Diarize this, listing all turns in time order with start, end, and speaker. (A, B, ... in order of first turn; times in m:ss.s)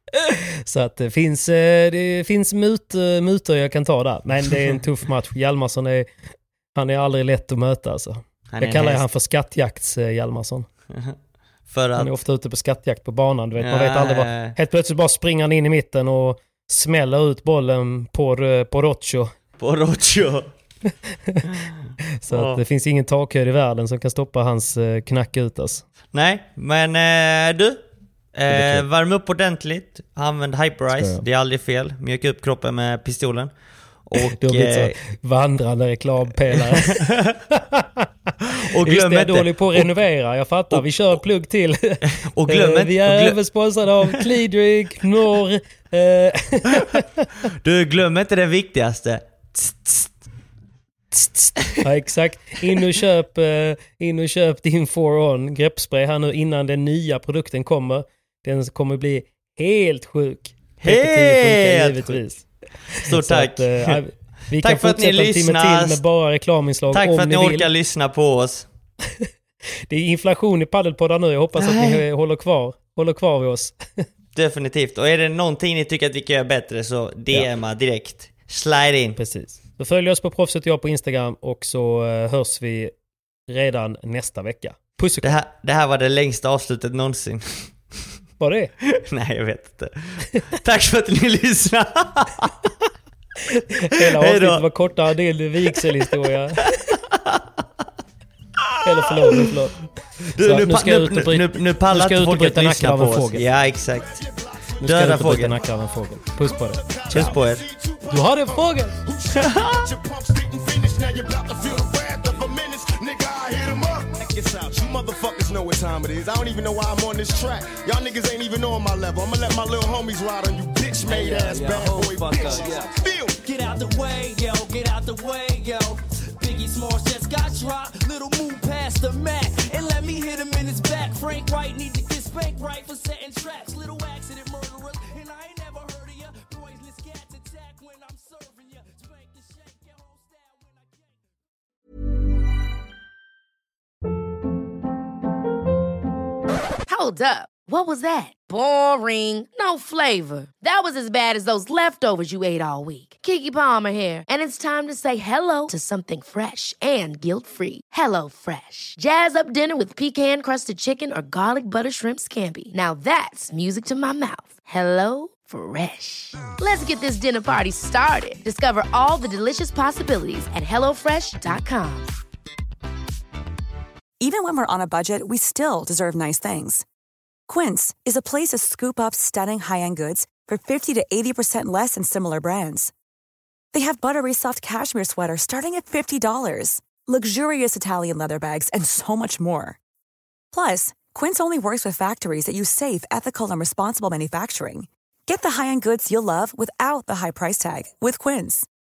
0:00.2-0:06.1 A
0:06.7-0:10.7 A
0:08.5-0:09.1 B
0:11.7-0:12.1 B
0:12.0-0:19.3 A
0:13.6-0:14.6 B
0:19.6-0:20.5 B
0:21.5-0:22.6 B
0:22.2-0:25.8 A
0:26.1-0:27.8 B
0:28.4-0:33.5 B
0:28.5-0:28.8 A
0:30.9-0:31.2 A
0:34.1-0:35.0 B
0:34.4-0:38.1 A
0:36.5-0:37.4 B
0:38.7-0:39.9 B
0:38.8-0:47.3 A
0:40.7-0:41.2 B
0:42.0-0:43.4 B
0:47.5-0:50.2 B
0:51.1-1:07.7 A
1:00.8-1:02.2 B
1:02.9-1:04.0 B
1:04.6-1:06.0 B
1:06.9-1:08.7 B
1:09.9-1:14.1 A
1:11.6-1:12.0 B
1:14.4-1:19.2 B
1:19.2-1:22.9 A
1:23.5-1:25.4 A
1:25.2-1:27.8 B
1:28.4-1:28.7 A
1:28.9-1:32.7 B
1:33.8-1:36.8 A
1:34.0-1:34.7 B
1:36.8-1:37.4 B
1:38.8-1:39.8 A
1:40.3-1:44.2 B
1:40.3-1:43.4 A
1:43.6-1:44.8 C
1:44.8-1:47.4 A
1:44.8-1:45.6 B
1:45.5-2:03.4 C
1:47.1-1:47.6 B
1:48.1-1:49.0 A
1:49.4-1:49.8 B
2:01.0-2:21.3 D
2:26.9-2:52.1 E
2:54.2-2:56.8 F
2:57.5-3:02.9 F
3:03.7-3:09.8 F
3:10.5-3:18.7 F